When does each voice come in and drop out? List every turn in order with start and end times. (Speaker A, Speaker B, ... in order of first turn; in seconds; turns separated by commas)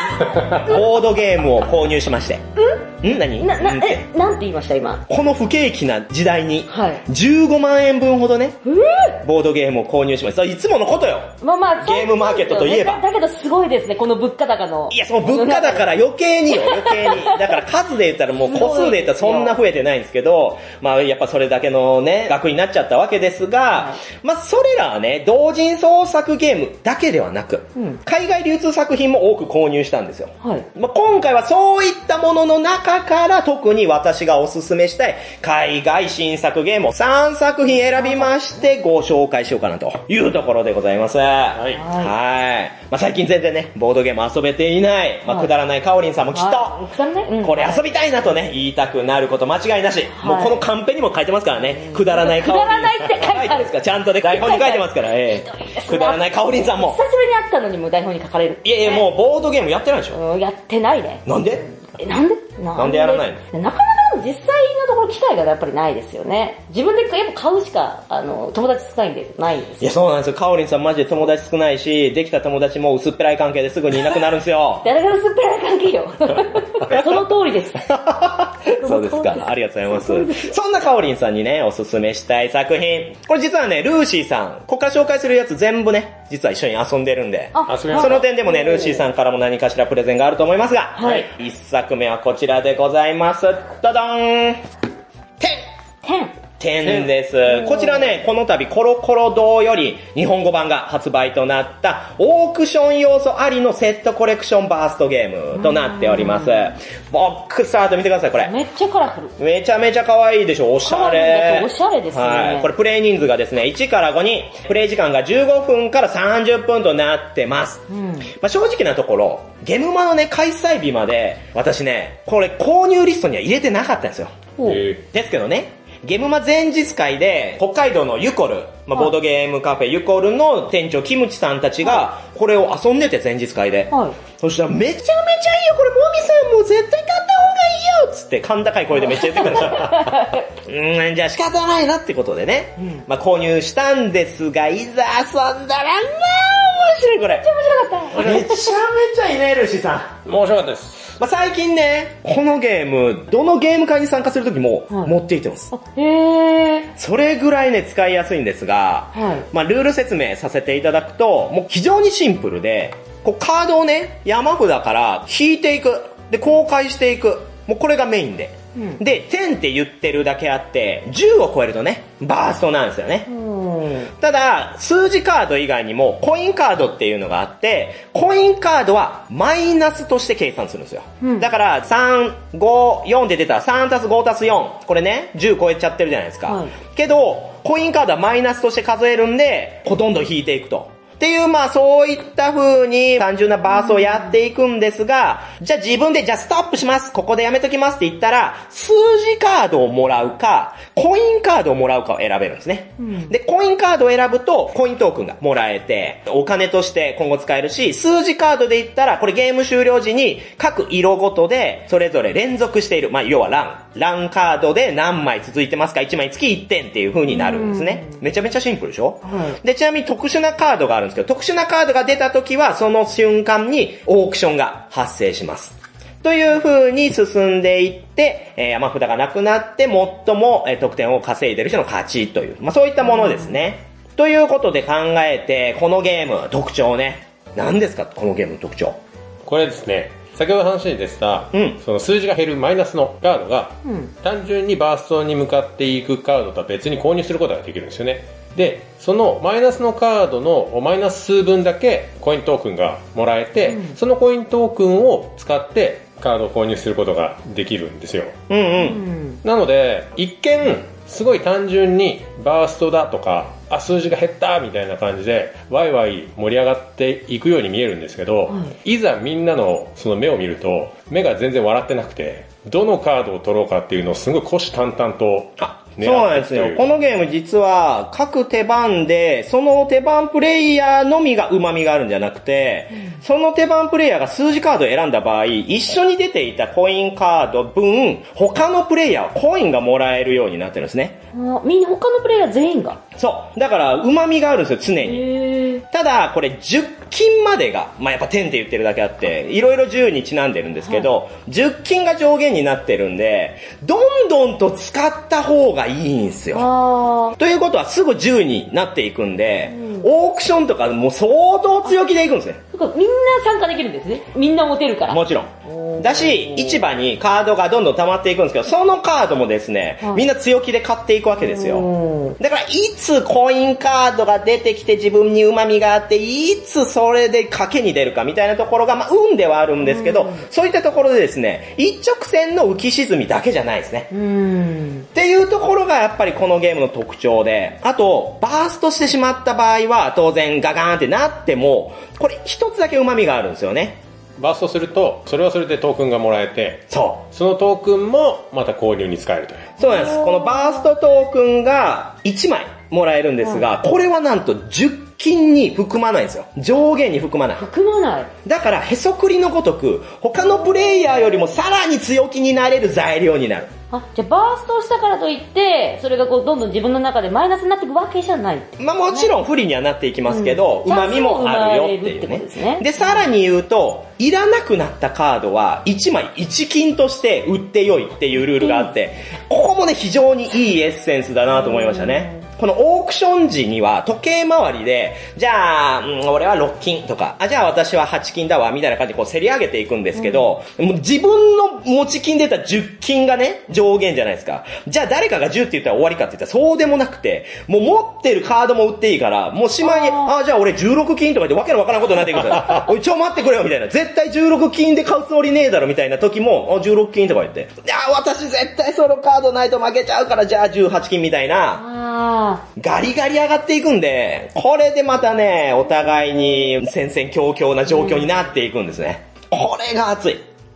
Speaker A: 0.4-2.4, Speaker B: 2.6-2.9, Speaker A: 3.0-4.0, Speaker B: 3.4-5.0, Speaker A: 5.1-8.6, Speaker B: 6.7-7.0, Speaker B: 8.6-9.2, Speaker A: 9.2-11.3, Speaker B: 11.4-16.0, Speaker A: 11.8-13.0, Speaker A: 14.9-46.8, Speaker B: 16.5-17.4, Speaker B: 18.4-19.6, Speaker B: 37.9-38.5, Speaker C: 41.5-41.8, Speaker B: 41.8-42.1, Speaker B: 46.3-48.0, Speaker A: 47.4-57.0, Speaker B: 50.1-50.6, Speaker B: 51.8-59.1, Speaker A: 58.6-60.2, Speaker B: 60.1-69.8, Speaker A: 61.2-61.6, Speaker A: 62.8-63.4, Speaker A: 69.8-74.8, Speaker B: 74.8-77.9, Speaker A: 77.9-94.6, Speaker B: 78.7-80.5, Speaker B: 87.5-89.0, Speaker C: 87.7-88.2, Speaker B: 91.0-91.3, Speaker B: 96.0-96.3, Speaker A: 96.6-108.5, Speaker B: 97.5-98.1, Speaker B: 105.5-106.7, Speaker B: 108.4-109.3, Speaker A: 109.4-117.8, Speaker B: 110.8-112.7, Speaker B: 117.9-118.3, Speaker A: 118.3-124.3, Speaker C: 124.6-125.0, Speaker A: 125.1-140.1, Speaker B: 133.9-134.2, Speaker B: 139.1-140.4, Speaker A: 140.6-147.5, Speaker B: 147.4-148.7, Speaker A: 148.1-150.2, Speaker C: 148.1-148.4, Speaker C: 150.2-151.1, Speaker A: 151.2-155.7, Speaker B: 155.7-156.9, Speaker A: 157.0-173.3, Speaker B: 159.1-159.4, Speaker B: 168.8-169.0, Speaker B: 173.3-174.1, Speaker A: 174.2-239.0, Speaker B: 181.2-181.5, Speaker B: 186.5-186.7, Speaker B: 193.8-194.2, Speaker B: 203.0-203.3, Speaker B: 217.3-218.2, Speaker B: 219.2-219.6, Speaker B: 233.1-233.5, Speaker C: 239.4-258.3, Speaker A: 241.5-241.8, Speaker B: 243.8-244.1, Speaker B: 253.7-254.0, Speaker A: 258.5-259.0, Speaker B: 258.8-259.4, Speaker C: 259.4-276.9, Speaker A: 275.6-291.2, Speaker B: 291.3-293.0, Speaker A: 293.2-295.3, Speaker B: 295.0-295.8, Speaker A: 295.9-306.7, Speaker B: 306.5-307.3, Speaker A: 307.4-312.6, Speaker B: 309.7-310.1, Speaker B: 312.7-316.9, Speaker A: 315.1-321.9, Speaker B: 321.4-322.4, Speaker A: 322.4-334.1, Speaker B: 329.8-330.4, Speaker B: 334.1-335.1, Speaker A: 335.1-344.0, Speaker C: 344.4-349.8, Speaker A: 346.9-347.2, Speaker A: 349.8-357.6, Speaker B: 349.8-350.8, Speaker B: 357.6-358.3, Speaker A: 358.4-363.7, Speaker B: 360.4-360.9, Speaker B: 363.9-369.3, Speaker A: 368.8-411.8, Speaker B: 370.3-373.3, Speaker B: 378.6-378.9, Speaker B: 381.5-382.4, Speaker B: 390.2-390.5, Speaker B: 399.8-400.3, Speaker B: 411.8-412.6, Speaker A: 412.8-420.4, Speaker B: 417.9-418.2